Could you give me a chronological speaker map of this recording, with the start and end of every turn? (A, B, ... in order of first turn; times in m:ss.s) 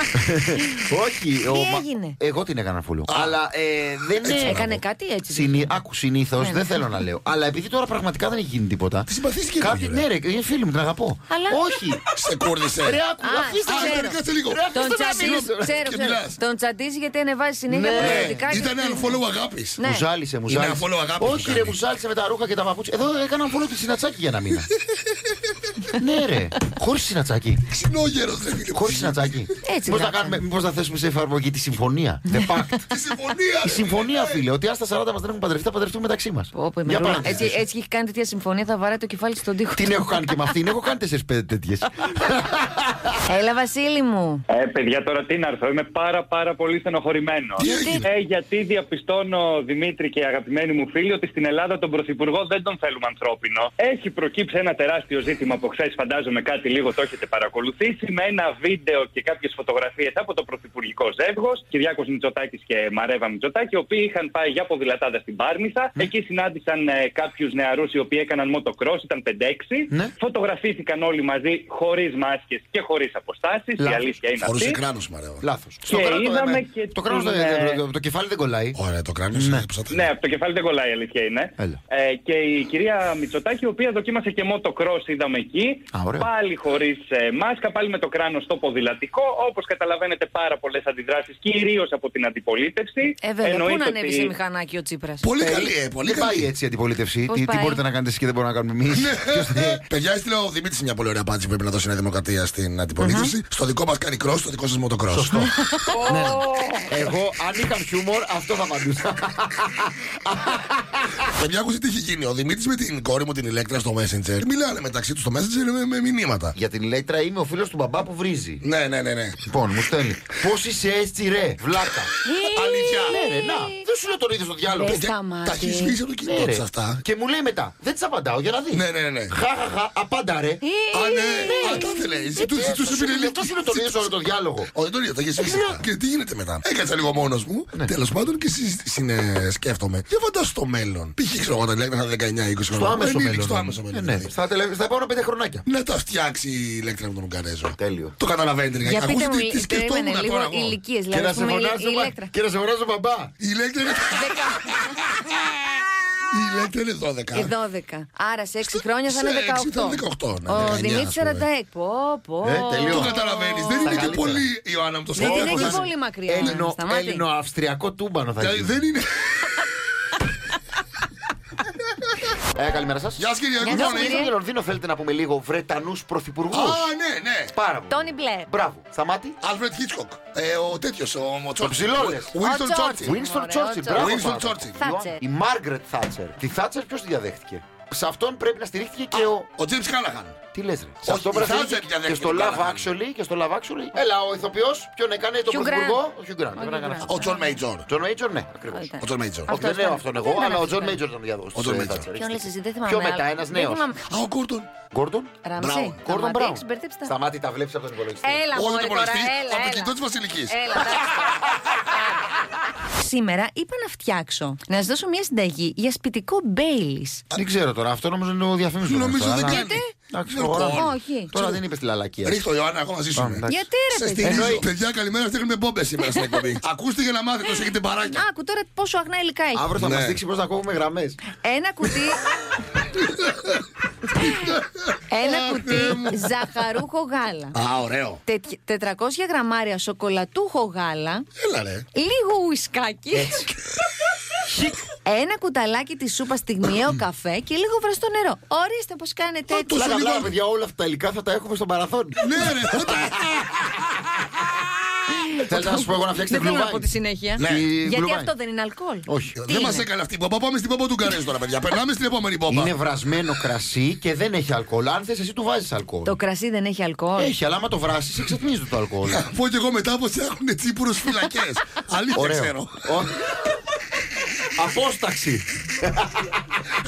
0:00.2-0:04.7 A
0:01.5-0:02.2 B
0:03.1-0:03.4 C
0:04.2-0:04.8 C
0:04.4-0:05.7 B
0:05.3-0:09.1 A
0:06.4-0:06.8 B
0:09.1-0:10.1 C
0:09.6-0:12.0 A
0:11.3-0:11.6 B
0:12.1-0:13.0 C
0:12.8-0:15.9 A
0:13.2-0:14.2 B
0:13.6-0:16.4 C
0:14.7-0:19.2 B
0:17.7-0:18.6 A
0:17.9-0:19.8 C
0:19.8-0:20.0 B
0:19.8-0:24.7 A
0:20.5-0:21.8 C
0:26.0-0:27.6 A
0:27.7-0:29.5 C
0:28.7-0:32.8 A
0:29.6-0:30.4 B
0:32.9-0:34.4 C
0:33.6-0:37.6 A
0:36.5-0:40.4 B
0:37.1-0:37.6 C
0:39.8-0:43.1 A
0:43.3-0:44.4 B
0:44.5-1:14.8 D
0:47.6-0:48.1 C
0:47.6-0:48.1 B
1:13.8-1:14.2 A
1:14.4-1:15.4 C
1:15.4-1:18.8 A
1:15.8-1:17.8 D
1:18.7-1:20.1 C
1:19.3-1:19.7 A
1:19.9-1:34.3 D
1:25.9-1:26.3 A
1:33.2-1:35.3 B
1:35.2-1:36.5 C
1:35.4-1:39.8 A
1:37.3-1:37.8 B
1:38.9-1:45.4 C
1:43.0-1:43.3 B
1:45.1-1:51.3 A
1:45.6-1:46.4 B
1:51.3-1:56.6 C
1:56.6-1:58.6 A
1:58.6-1:59.4 C
1:59.5-2:02.1 A
2:02.3-2:03.8 B
2:02.4-2:03.2 C
2:03.0-2:05.0 A
2:04.7-2:06.0 B
2:04.8-2:07.0 C
2:06.2-2:10.6 A
2:08.7-2:09.4 C
2:10.6-2:12.1 B
2:10.9-2:24.3 C
2:11.4-2:14.7 A
2:15.5-2:15.8 A
2:22.7-2:25.6 A
2:25.6-2:30.8 C
2:27.8-2:28.2 A
2:28.8-2:32.3 B
2:31.1-2:33.3 A
2:33.4-2:34.7 C
2:34.2-2:34.8 B
2:36.3-2:37.6 C
2:37.3-2:44.1 B
2:38.6-2:41.5 C
2:42.4-2:43.1 A
2:42.8-2:46.6 C
2:43.8-2:44.5 A
2:45.1-2:47.2 B
2:45.2-2:48.8 A
2:48.4-2:49.2 C
2:52.5-2:56.9 A
2:53.2-2:54.3 C
2:53.6-2:54.3 B
2:56.5-2:57.5 C
2:57.5-2:59.4 A
2:57.9-2:58.5 B
2:59.4-3:03.2 C
3:01.6-3:02.4 A
3:02.4-3:04.2 B
3:03.0-3:09.5 A
3:03.9-3:04.8 C
3:04.8-3:05.2 B
3:09.1-3:10.4 C
3:10.5-3:17.2 A
3:11.0-3:12.9 C
3:15.5-3:16.0 B
3:16.6-3:17.6 B
3:17.0-3:17.9 C
3:17.9-3:18.9 A
3:18.7-3:21.0 B
3:19.0-3:19.5 C
3:19.5-3:23.8 A
3:21.5-3:22.1 C
3:22.1-3:24.0 B
3:24.1-3:24.7 C
3:24.9-3:25.3 A
3:25.4-3:27.1 B
3:25.6-3:26.0 C
3:26.0-3:28.5 A
3:28.2-3:30.0 B
3:28.5-3:31.0 C
3:30.5-3:31.9 B
3:32.9-3:37.2 B
3:37.4-3:42.4 A
3:38.8-3:41.6 C
3:39.5-3:39.9 B
3:40.7-3:41.5 B
3:42.2-3:48.2 C
3:43.2-3:43.6 A
3:43.5-3:44.6 B
3:44.2-3:44.7 A
3:48.1-3:49.7 B
3:49.5-3:51.2 A
3:49.8-3:50.2 C
3:51.4-3:52.2 B
3:52.9-3:53.5 C
3:54.4-3:56.2 C
3:55.1-3:57.6 B
3:57.5-3:58.2 C
3:58.3-4:01.2 B
4:01.4-4:01.9 C
4:01.9-4:03.5 B
4:03.1-4:03.4 A
4:04.5-4:04.8 A
4:05.0-4:09.8 B
4:09.5-4:10.4 C
4:09.7-4:12.2 A
4:12.2-4:13.5 C
4:15.4-4:19.9 B
4:15.5-4:16.9 A
4:17.4-4:17.7 C
4:17.4-4:18.3 A
4:19.1-4:19.4 A
4:19.4-4:22.8 C
4:22.5-4:26.2 A
4:26.0-4:27.3 B
4:27.2-4:29.2 A
4:29.0-4:32.9 C
4:32.2-4:33.2 A
4:34.6-4:36.3 A